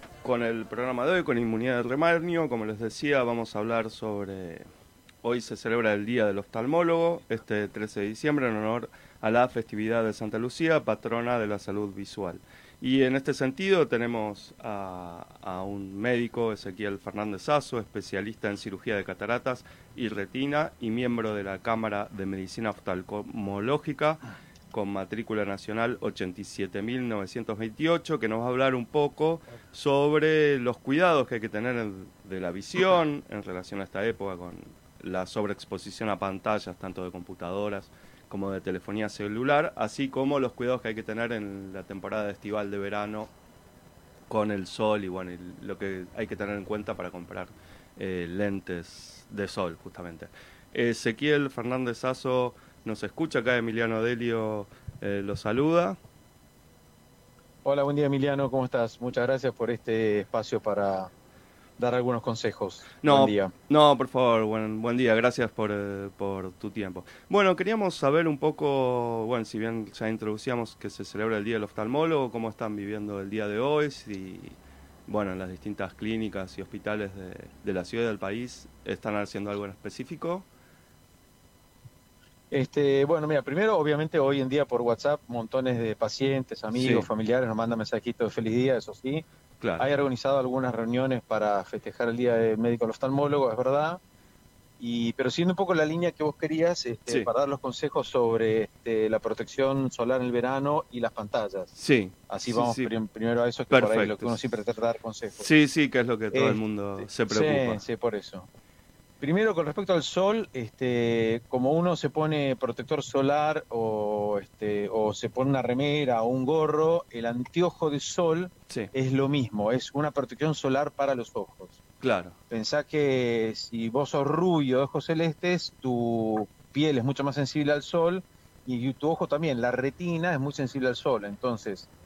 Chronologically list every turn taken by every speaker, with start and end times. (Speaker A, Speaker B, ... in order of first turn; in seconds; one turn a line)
Speaker A: 0.2-4.7
Speaker A: 5.2-43.3
Speaker A: 44.3-56.0
Speaker B: 57.6-61.1
Speaker B: 61.8-63.5
Speaker A: 63.0-80.5
Speaker B: 82.5-89.2
Speaker A: 86.7-87.1
Speaker A: 89.6-89.9
Speaker B: 89.8-94.0
Speaker B: 94.8-101.7
Speaker A: 101.8-102.9
Speaker B: 102.3-105.5
Speaker A: 103.7-104.5
Speaker A: 105.3-107.8
Speaker B: 106.3-108.5
Speaker B: 109.2-121.8
Speaker A: 122.0-122.4
Speaker B: 122.5-131.9